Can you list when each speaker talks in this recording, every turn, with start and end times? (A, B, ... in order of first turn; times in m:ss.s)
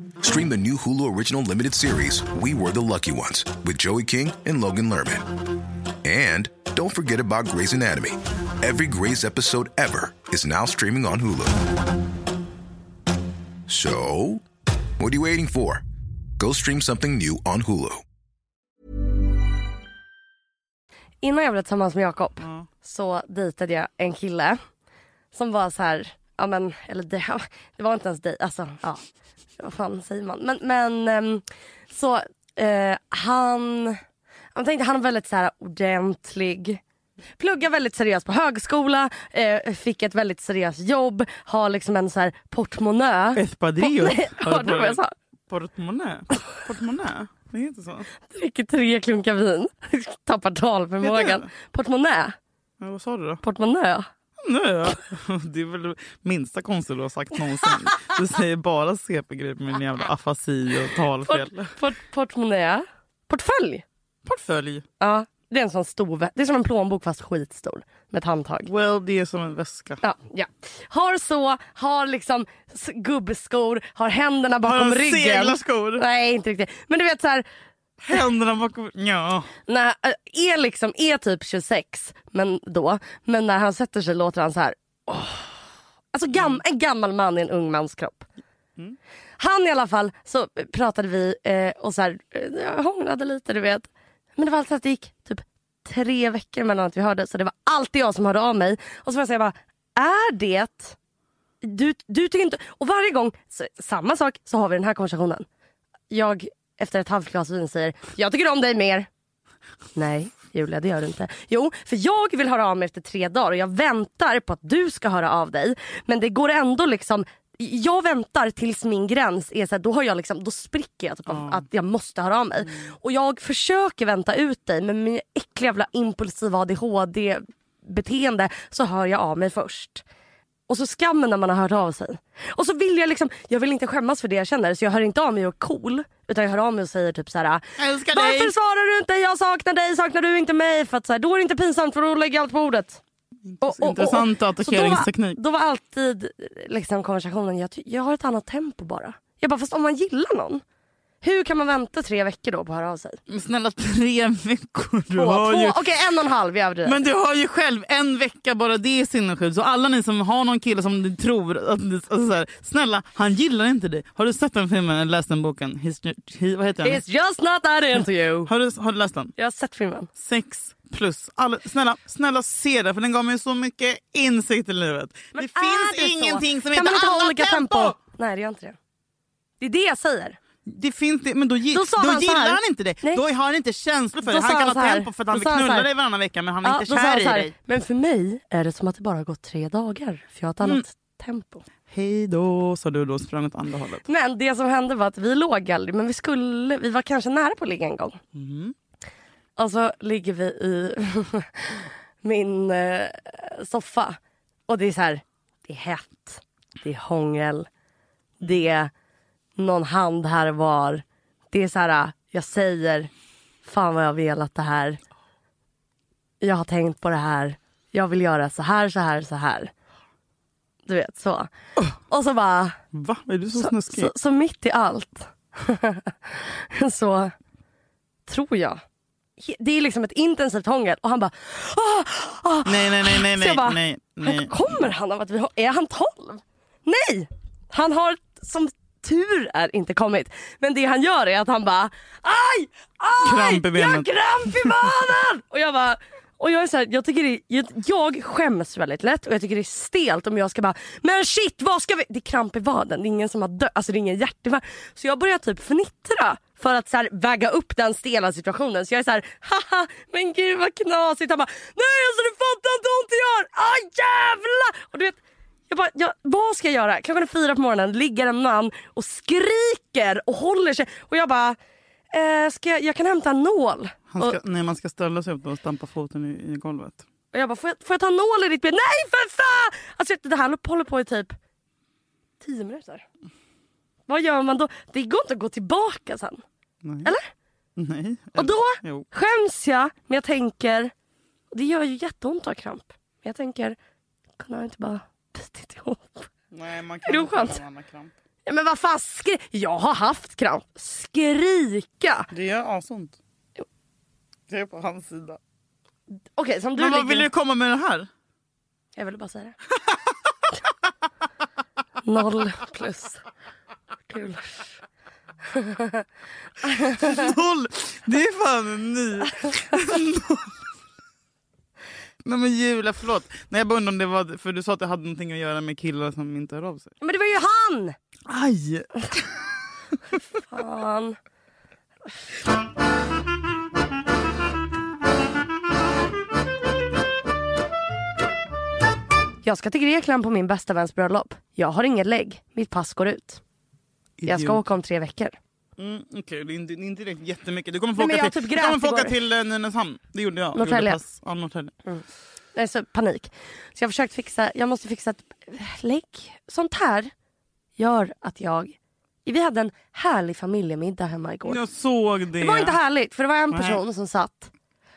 0:00.2-0:05.3 A
0:06.0-0:11.6 A
0:13.7-0:14.4 A
0:15.0-0:15.8 A
0:16.4-0:18.0 A
0:21.2-0:24.6 B
0:25.3-0:29.0 B
0:29.6-0:34.0 B
0:34.5-0:36.8 B
0:37.4-0:45.1 B
0:43.4-0:48.1 C
0:48.3-0:52.4 B
0:51.0-0:51.5 C
0:52.8-0:53.4 C
0:53.4-0:54.1 B
0:54.4-1:01.8 C
1:01.2-1:03.8 B
1:04.2-1:04.8 C
1:05.0-1:08.7 B
1:08.6-1:10.0 C
1:10.0-1:17.4 B
1:14.6-1:16.0 C
1:18.0-1:19.5 C
1:19.7-1:25.6 B
1:26.1-1:28.3 B
1:29.4-1:41.0 B
1:41.6-1:45.4 B
1:46.1-1:49.1 B
1:49.9-2:10.0 B
2:01.3-2:01.6 C
2:10.7-2:23.0 B
2:17.8-2:18.5 C
2:23.5-2:25.4 C
2:23.6-2:30.6 B
2:31.2-2:33.2 B
2:33.3-2:35.8 C
2:35.2-2:37.0 B
2:36.8-2:47.0 C
2:46.8-2:48.5 B
2:48.5-2:49.3 C
2:49.4-2:50.1 B
2:50.2-2:58.0 C
2:55.3-2:58.8 B
2:59.6-3:00.4 B
3:00.6-3:07.5 C
3:01.7-3:03.2 B
3:04.2-3:05.9 B
3:06.6-3:11.6 B
3:11.9-3:14.0 C
3:14.0-3:18.2 B
3:18.3-3:18.7 C
3:19.6-3:27.7 B
3:28.4-3:28.9 B
3:29.6-3:33.1 B
3:33.6-3:35.0 B
3:36.4-3:39.7 B
3:40.8-3:41.5 B
3:42.1-3:42.8 B
3:42.9-3:44.1 C
3:43.6-3:47.3 B
3:48.3-3:48.8 B
3:49.4-4:25.2 B
3:52.6-3:54.6 C
4:03.2-4:04.9 C
4:25.7-4:31.6 B
4:32.1-4:34.4 B
4:34.1-4:37.0 C
4:37.3-4:41.4 B
4:42.4-4:43.0 B
4:44.1-4:46.4 B
4:46.8-4:47.1 C
4:47.0-4:47.3 B
4:47.8-4:49.0 C
4:48.3-4:50.9 B
4:51.5-4:53.8 B
4:54.4-4:56.3 B
4:56.5-4:58.1 C
4:57.1-4:57.6 B
4:58.4-5:02.3 B
5:02.3-5:03.2 C
5:04.5-5:05.4 C
5:06.3-5:07.3 B
5:06.8-5:08.1 C
5:09.0-5:09.6 B
5:12.0-5:13.2 B
5:14.1-5:14.7 B
5:15.5-5:16.0 B
5:16.6-5:17.3 B
5:16.9-5:20.5 C
5:22.2-5:26.9 C
5:27.0-5:28.0 B
5:28.3-5:29.5 C
5:30.5-5:31.2 B
5:39.4-5:43.4 B
5:44.2-5:44.6 C
5:44.2-5:45.4 B
5:45.8-5:51.7 C
5:48.0-5:49.1 B
5:50.5-5:51.0 B
5:52.5-5:57.1 B
5:57.8-6:01.6 B
6:01.4-6:02.8 C
6:02.4-6:04.5 B
6:03.5-6:03.8 C